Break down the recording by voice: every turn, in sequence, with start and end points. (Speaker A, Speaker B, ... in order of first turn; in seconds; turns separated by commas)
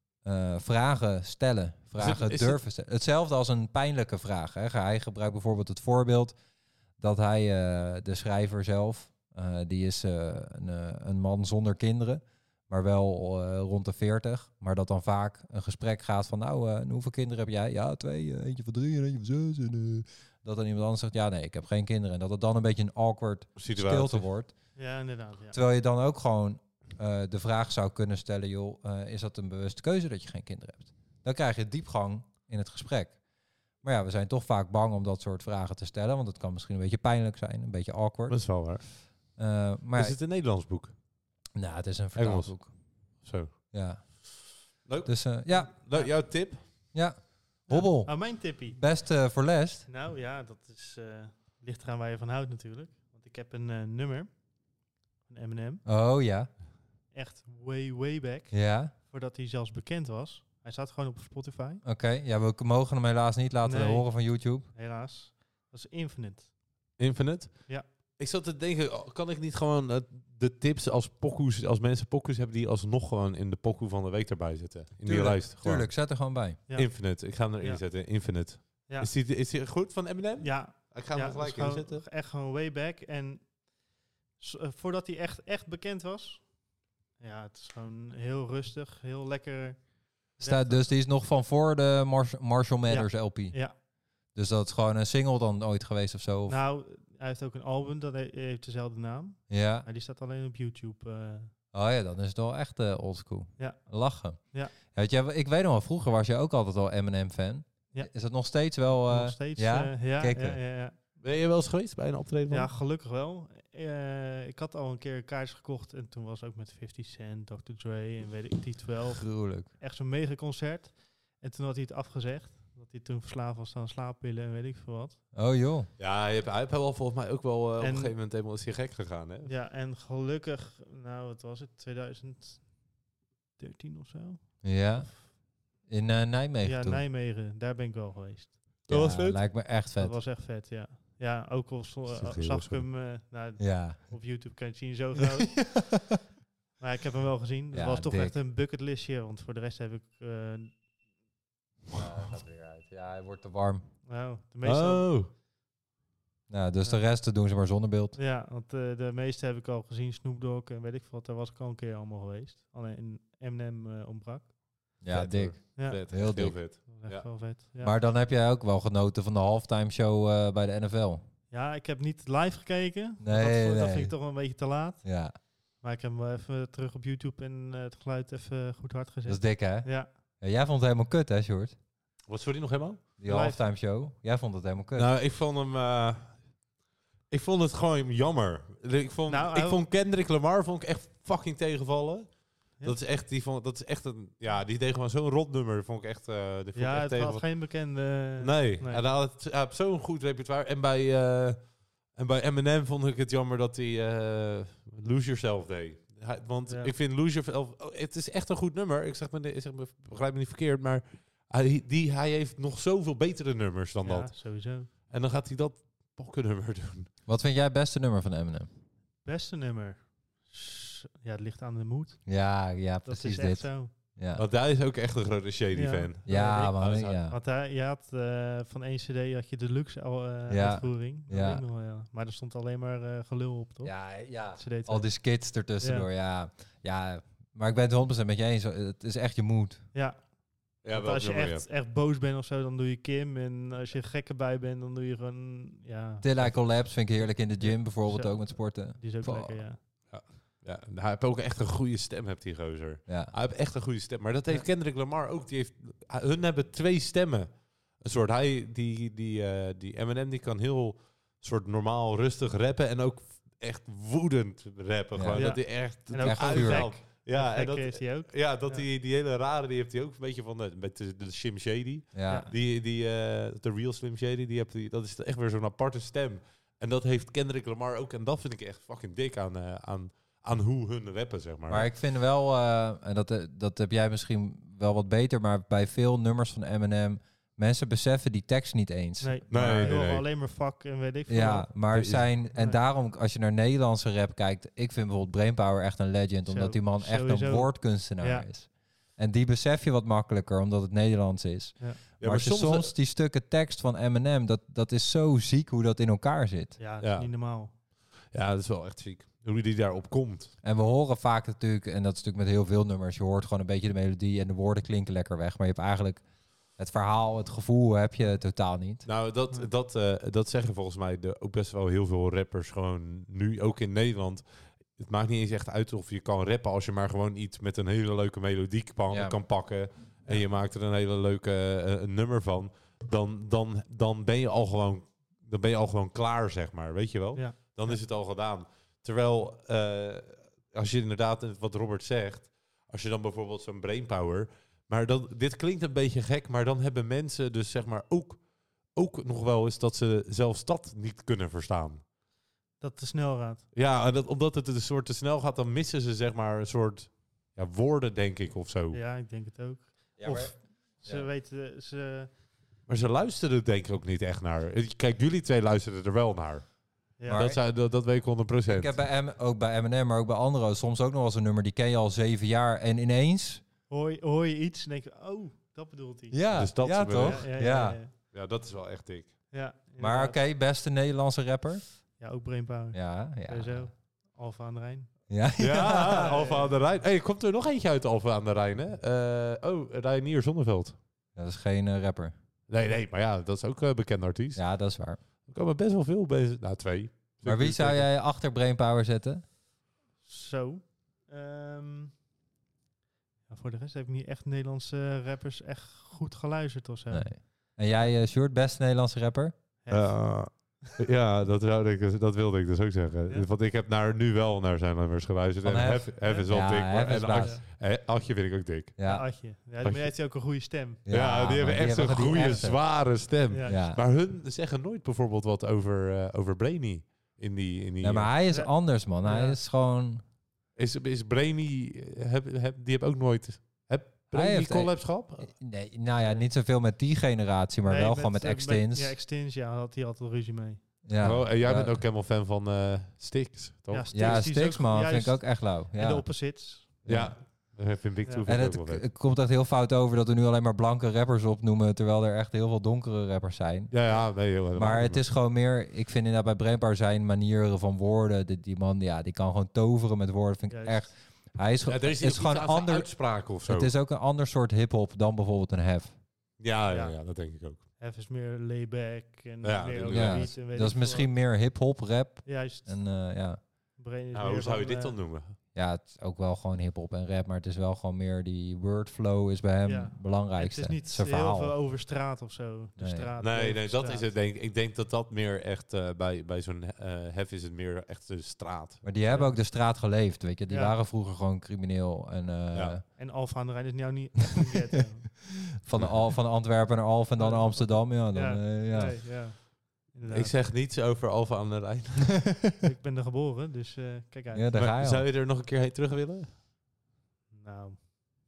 Speaker A: 0.2-6.3, Speaker B: 2.0-2.6, Speaker A: 7.0-24.8, Speaker B: 23.6-24.3, Speaker C: 24.7-25.6, Speaker A: 25.5-33.2, Speaker A: 33.8-40.2, Speaker B: 38.3-39.4, Speaker B: 39.9-40.9, Speaker A: 41.5-42.7, Speaker B: 42.1-44.3, Speaker A: 43.7-46.2, Speaker B: 44.8-46.6, Speaker C: 45.5-46.1, Speaker A: 46.9-49.9, Speaker C: 47.7-49.2, Speaker C: 49.9-54.5, Speaker C: 55.2-55.8, Speaker A: 55.8-56.5, Speaker C: 57.1-61.8, Speaker A: 58.5-58.9, Speaker A: 61.8-64.7, Speaker C: 63.6-66.5, Speaker B: 67.0-76.1, Speaker A: 75.0-76.6, Speaker C: 76.7-77.9, Speaker B: 76.7-82.0, Speaker C: 80.4-83.7, Speaker C: 84.4-86.6, Speaker C: 87.2-90.9, Speaker A: 90.4-96.6, Speaker C: 92.9-93.8, Speaker C: 96.5-101.5, Speaker A: 99.5-99.8, Speaker A: 101.7-110.6, Speaker C: 103.6-104.7, Speaker C: 107.9-111.0, Speaker B: 111.2-112.7, Speaker C: 112.5-125.2, Speaker A: 119.2-119.7, Speaker A: 125.3-125.9, Speaker B: 126.0-129.5, Speaker C: 127.8-128.2, Speaker C: 129.4-133.0, Speaker C: 133.6-134.8, Speaker A: 134.6-137.0, Speaker C: 136.6-138.8, Speaker B: 138.9-139.5, Speaker A: 138.9-140.2, Speaker C: 139.9-146.1, Speaker B: 142.1-142.9, Speaker A: 143.6-144.1, Speaker A: 145.2-146.0, Speaker C: 146.8-150.8, Speaker A: 147.7-148.4, Speaker A: 151.9-153.9, Speaker C: 154.0-155.1, Speaker B: 154.6-155.3, Speaker A: 156.5-158.2, Speaker C: 156.8-157.1, Speaker C: 158.2-164.5, Speaker A: 165.0-166.6, Speaker B: 165.1-167.3, Speaker C: 165.8-168.0, Speaker A: 167.8-171.2, Speaker C: 171.5-180.1, Speaker A: 173.2-174.2, Speaker A: 175.0-175.4, Speaker A: 179.3-181.8, Speaker B: 182.3-183.0, Speaker A: 183.2-185.1, Speaker C: 183.2-183.6, Speaker B: 184.9-186.6, Speaker B: 187.3-197.7, Speaker C: 189.3-189.8, Speaker C: 196.7-199.0, Speaker B: 198.4-217.1, Speaker C: 206.7-206.9, Speaker C: 214.0-214.9, Speaker A: 217.3-218.7, Speaker C: 219.2-223.9, Speaker A: 222.2-224.4, Speaker B: 224.3-227.2, Speaker C: 225.7-236.1, Speaker A: 226.2-227.3, Speaker A: 230.5-231.6, Speaker A: 233.8-239.8, Speaker C: 239.9-249.8, Speaker B: 240.8-241.7, Speaker A: 246.2-249.7, Speaker B: 250.1-281.9, Speaker A: 253.1-253.3, Speaker A: 265.1-267.0, Speaker C: 265.3-268.9, Speaker A: 272.1-272.5, Speaker A: 281.7-290.1, Speaker C: 289.2-291.8, Speaker B: 289.5-290.2, Speaker A: 291.3-306.8, Speaker B: 291.9-292.3, Speaker C: 292.5-292.8, Speaker C: 296.4-298.5, Speaker B: 302.2-302.9, Speaker C: 306.8-307.7, Speaker B: 307.0-307.3, Speaker B: 308.3-310.5, Speaker A: 310.6-319.1, Speaker B: 319.0-352.0, Speaker A: 329.1-329.4, Speaker C: 337.3-338.0, Speaker C: 352.8-353.6, Speaker B: 353.7-359.0, Speaker C: 358.9-362.3, Speaker A: 360.2-361.3, Speaker B: 360.2-360.5, Speaker B: 362.9-369.0, Speaker C: 367.2-367.6, Speaker A: 367.3-367.6, Speaker A: 368.7-373.6, Speaker C: 373.9-378.1, Speaker A: 376.3-378.0, Speaker B: 376.5-379.4, Speaker C: 379.5-380.4, Speaker A: 380.0-382.0, Speaker C: 382.2-386.8, Speaker A: 382.9-383.9, Speaker A: 385.3-386.3, Speaker B: 385.6-391.0, Speaker A: 391.3-392.3, Speaker B: 392.7-398.1, Speaker A: 394.6-395.2, Speaker A: 397.4-399.4, Speaker C: 400.2-402.1, Speaker C: 403.5-408.2, Speaker A: 407.1-409.6, Speaker C: 409.8-410.8, Speaker B: 409.9-419.0, Speaker A: 415.6-417.6, Speaker C: 416.2-417.6, Speaker A: 419.0-419.3, Speaker C: 419.0-421.0, Speaker B: 419.8-428.3, Speaker A: 421.0-424.0, Speaker C: 423.5-423.9, Speaker A: 428.0-430.2, Speaker C: 428.5-429.6, Speaker B: 430.8-435.6, Speaker A: 434.3-439.1, Speaker C: 437.8-441.0, Speaker A: 441.0-442.0, Speaker B: 441.2-444.4, Speaker C: 443.9-448.4, Speaker A: 444.1-447.4, Speaker B: 447.0-449.1, Speaker A: 448.4-466.2, Speaker B: 453.9-455.2, Speaker C: 460.7-461.1, Speaker B: 461.8-463.9, Speaker B: 466.6-467.8, Speaker C: 466.9-471.3, Speaker B: 469.6-470.5, Speaker A: 470.1-473.6, Speaker C: 472.4-475.2, Speaker B: 474.3-475.6, Speaker A: 475.7-481.8, Speaker C: 479.8-484.3, Speaker A: 483.0-483.3, Speaker B: 483.4-489.0, Speaker A: 489.0-493.0, Speaker C: 489.2-489.6, Speaker C: 490.7-491.0, Speaker B: 492.7-493.0, Speaker C: 493.1-495.7, Speaker A: 495.7-499.3, Speaker C: 497.4-500.6, Speaker B: 500.3-502.6, Speaker A: 502.4-502.7, Speaker C: 502.8-504.7, Speaker A: 504.5-505.3, Speaker B: 504.7-506.5, Speaker C: 507.5-508.0